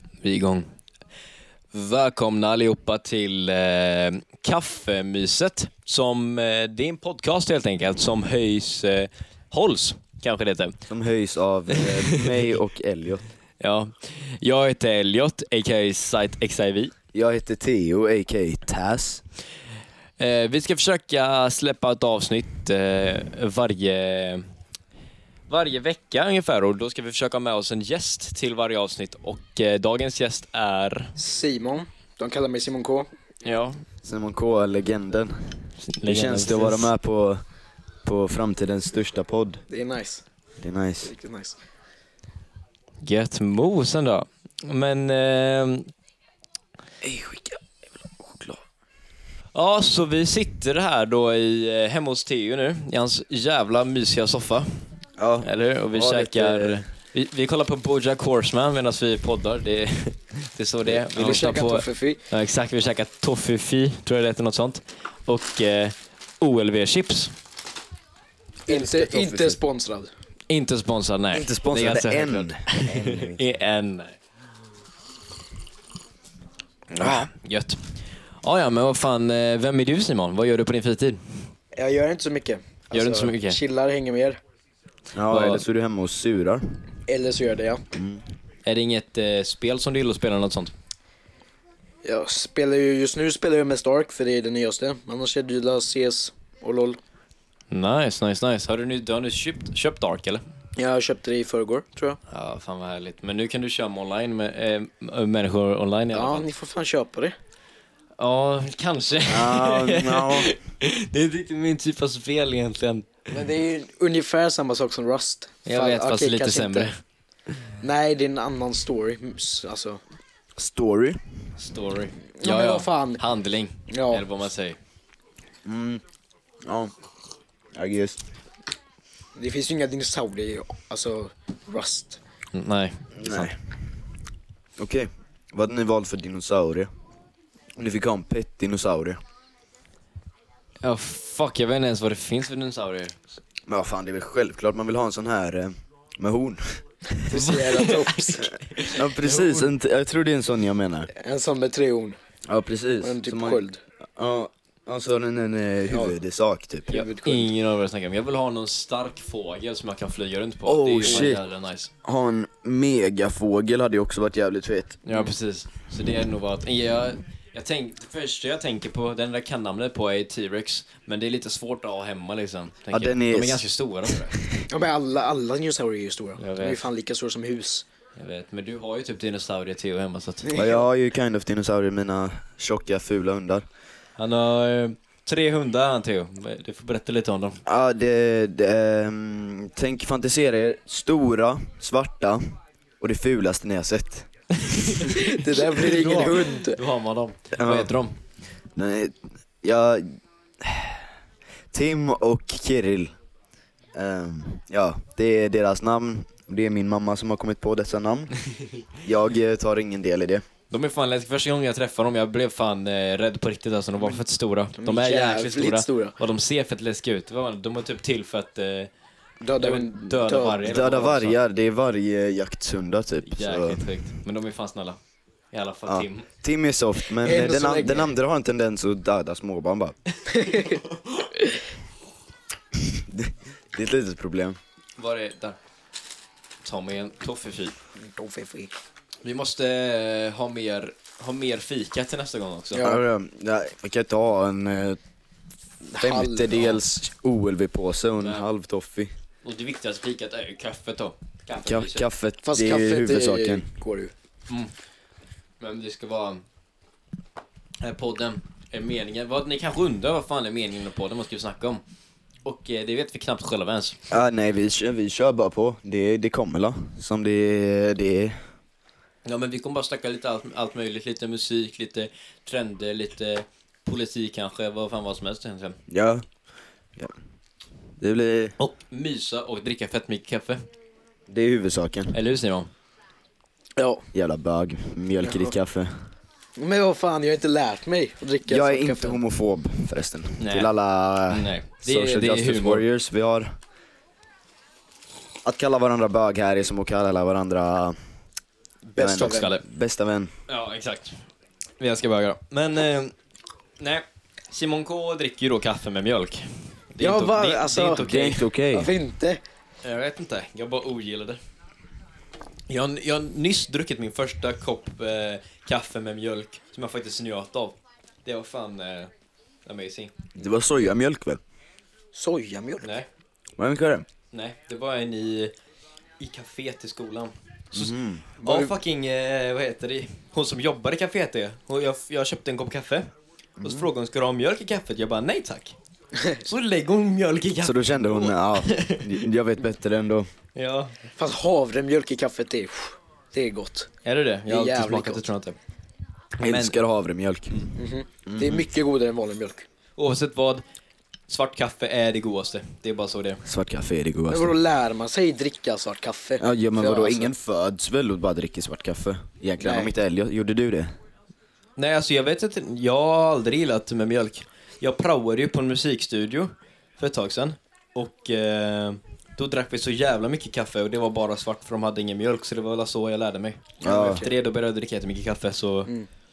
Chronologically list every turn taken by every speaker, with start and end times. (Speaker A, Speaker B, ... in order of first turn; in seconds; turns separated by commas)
Speaker A: 0.2-0.7, Speaker A: 1.7-10.8, Speaker B: 10.9-13.2, Speaker A: 11.7-12.3, Speaker A: 13.6-16.9, Speaker B: 17.1-19.2, Speaker A: 20.2-24.5, Speaker A: 25.5-31.1, Speaker C: 31.2-33.1, Speaker A: 33.4-33.8, Speaker B: 34.0-37.4, Speaker A: 35.9-36.9, Speaker B: 38.0-39.6, Speaker C: 39.7-40.2, Speaker B: 40.6-41.1, Speaker C: 41.0-41.6, Speaker A: 43.0-45.9, Speaker B: 47.0-48.6, Speaker A: 49.5-54.8, Speaker B: 55.2-56.8, Speaker A: 55.4-67.3, Speaker C: 61.1-62.2, Speaker B: 68.7-69.6, Speaker C: 68.7-70.1, Speaker A: 70.5-74.2, Speaker B: 71.3-73.5, Speaker A: 76.9-81.4, Speaker C: 81.8-84.4, Speaker A: 82.9-83.6, Speaker B: 85.1-86.8, Speaker A: 85.3-85.6, Speaker C: 87.1-87.8, Speaker B: 87.9-88.2, Speaker A: 88.7-90.7, Speaker C: 92.0-97.0, Speaker A: 97.7-100.4, Speaker C: 100.8-102.2, Speaker A: 102.3-106.5, Speaker C: 106.1-107.3, Speaker A: 108.2-113.3, Speaker B: 109.3-110.5, Speaker C: 113.3-116.9, Speaker A: 115.7-117.0, Speaker C: 117.8-120.0, Speaker B: 120.6-121.2, Speaker A: 121.6-124.8, Speaker C: 122.4-123.2, Speaker C: 123.9-124.2, Speaker B: 125.6-126.0, Speaker B: 126.6-126.9, Speaker B: 127.7-128.2, Speaker C: 129.4-132.2, Speaker A: 132.5-133.5, Speaker B: 133.2-133.6, Speaker B: 134.8-136.9, Speaker B: 137.8-139.2, Speaker A: 140.8-143.2, Speaker B: 143.7-146.8, Speaker C: 147.2-148.5, Speaker A: 147.3-149.7, Speaker B: 148.8-151.1, Speaker C: 151.2-152.2, Speaker B: 152.4-153.6, Speaker C: 153.0-153.8, Speaker B: 154.2-157.0, Speaker C: 156.9-157.5, Speaker A: 156.9-161.9, Speaker B: 160.7-161.4, Speaker B: 162.0-165.0, Speaker A: 165.1-174.3, Speaker B: 172.9-173.6, Speaker B: 174.2-174.6, Speaker C: 174.7-177.8, Speaker A: 176.4-176.8, Speaker A: 178.2-180.6, Speaker C: 180.4-180.8, Speaker B: 180.5-183.7, Speaker A: 184.2-187.6, Speaker B: 187.7-192.4, Speaker B: 193.0-195.1, Speaker A: 194.7-198.2, Speaker C: 195.1-196.8, Speaker B: 197.5-198.0, Speaker B: 198.8-201.0, Speaker B: 201.7-203.1, Speaker B: 203.9-208.3, Speaker B: 209.0-210.4, Speaker A: 210.7-218.9, Speaker C: 214.8-216.1, Speaker C: 219.4-220.8, Speaker A: 219.6-221.4, Speaker B: 220.6-224.0, Speaker A: 223.2-225.0, Speaker A: 225.5-226.3, Speaker B: 225.9-230.0, Speaker C: 227.2-228.1, Speaker A: 230.3-231.3, Speaker C: 230.4-230.8, Speaker B: 232.8-234.6, Speaker A: 235.0-235.6, Speaker A: 236.6-237.8, Speaker C: 238.0-238.7, Speaker A: 239.2-242.8, Speaker C: 242.8-243.0, Speaker B: 242.8-245.0, Speaker B: 245.8-249.1, Speaker C: 245.9-246.5, Speaker A: 246.5-246.8, Speaker A: 248.2-248.5, Speaker A: 249.4-252.1, Speaker B: 251.7-253.7, Speaker C: 252.4-254.1, Speaker A: 255.6-256.4, Speaker A: 257.8-261.8, Speaker A: 262.4-264.0, Speaker B: 264.1-268.4, Speaker A: 269.2-275.8, Speaker B: 275.9-276.2, Speaker B: 278.0-278.5, Speaker A: 278.6-280.6, Speaker B: 281.3-282.1, Speaker A: 282.1-282.7, Speaker C: 283.8-284.0, Speaker B: 284.1-285.9, Speaker C: 285.2-285.5, Speaker C: 286.6-289.2, Speaker B: 288.5-293.5, Speaker A: 290.4-290.7, Speaker A: 291.3-292.8, Speaker B: 295.4-298.0, Speaker C: 298.9-299.5, Speaker B: 299.0-300.3, Speaker A: 299.0-299.6, Speaker A: 300.5-301.2, Speaker A: 301.8-303.1, Speaker A: 303.8-308.4, Speaker C: 307.0-309.4, Speaker B: 308.0-308.9, Speaker A: 309.8-311.4, Speaker A: 312.7-319.1, Speaker A: 319.6-320.1, Speaker B: 320.4-321.4, Speaker C: 322.1-322.9, Speaker A: 322.8-323.1, Speaker B: 323.6-324.1, Speaker A: 324.3-325.5, Speaker A: 326.2-333.1, Speaker B: 327.7-328.4, Speaker B: 333.6-333.9, Speaker A: 333.6-335.8, Speaker A: 336.4-339.2, Speaker B: 337.6-340.3, Speaker A: 340.5-341.0, Speaker C: 341.2-343.9, Speaker A: 344.0-345.6, Speaker C: 344.5-345.2, Speaker A: 346.4-346.8, Speaker B: 346.4-347.6, Speaker C: 347.8-349.7, Speaker B: 348.2-348.7, Speaker A: 350.0-350.6, Speaker A: 351.3-353.4, Speaker B: 353.4-354.6, Speaker C: 354.3-357.3, Speaker B: 356.4-360.9, Speaker C: 359.6-359.9, Speaker A: 361.8-375.9, Speaker B: 373.8-374.2